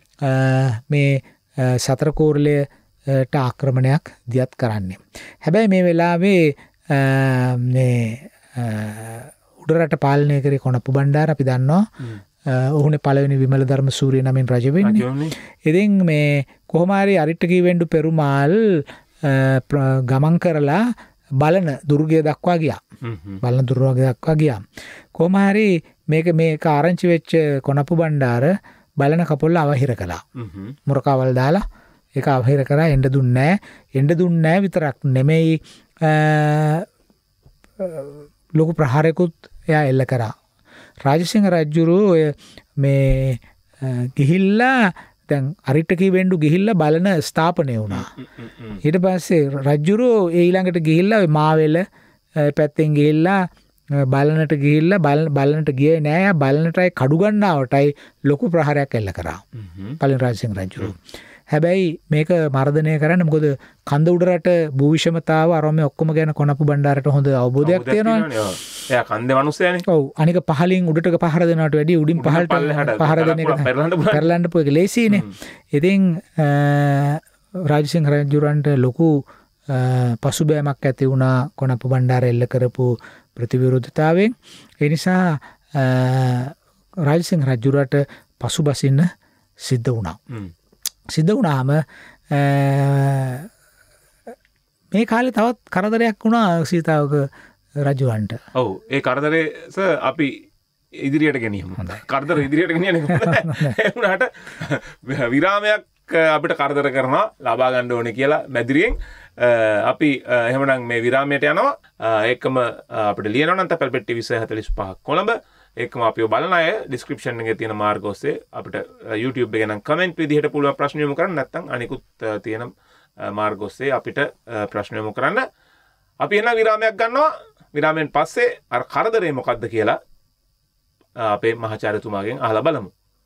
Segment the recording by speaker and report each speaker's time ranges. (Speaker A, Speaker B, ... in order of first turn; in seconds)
Speaker A: 0.2-11.9, 12.5-15.1, 15.7-20.9, 21.4-22.8, 23.4-24.6, 25.1-30.2, 30.9-31.6, 32.2-36.9, 37.8-40.3, 41.0-48.1, 48.8-51.8, 52.4-53.4, 54.0-59.4, 60.0-61.0, 61.5-68.3, 69.9-89.1, 89.6-90.2, 91.1-93.5, 94.9-97.3, 97.8-98.4, 103.1-103.8
Speaker B: 14.8-15.3, 23.0-23.4, 30.4-30.8, 47.9-48.8, 59.5-60.0, 67.6-69.8, 72.2-74.3, 98.5-100.4, 100.9-125.4, 126.2-130.0, 131.2-132.9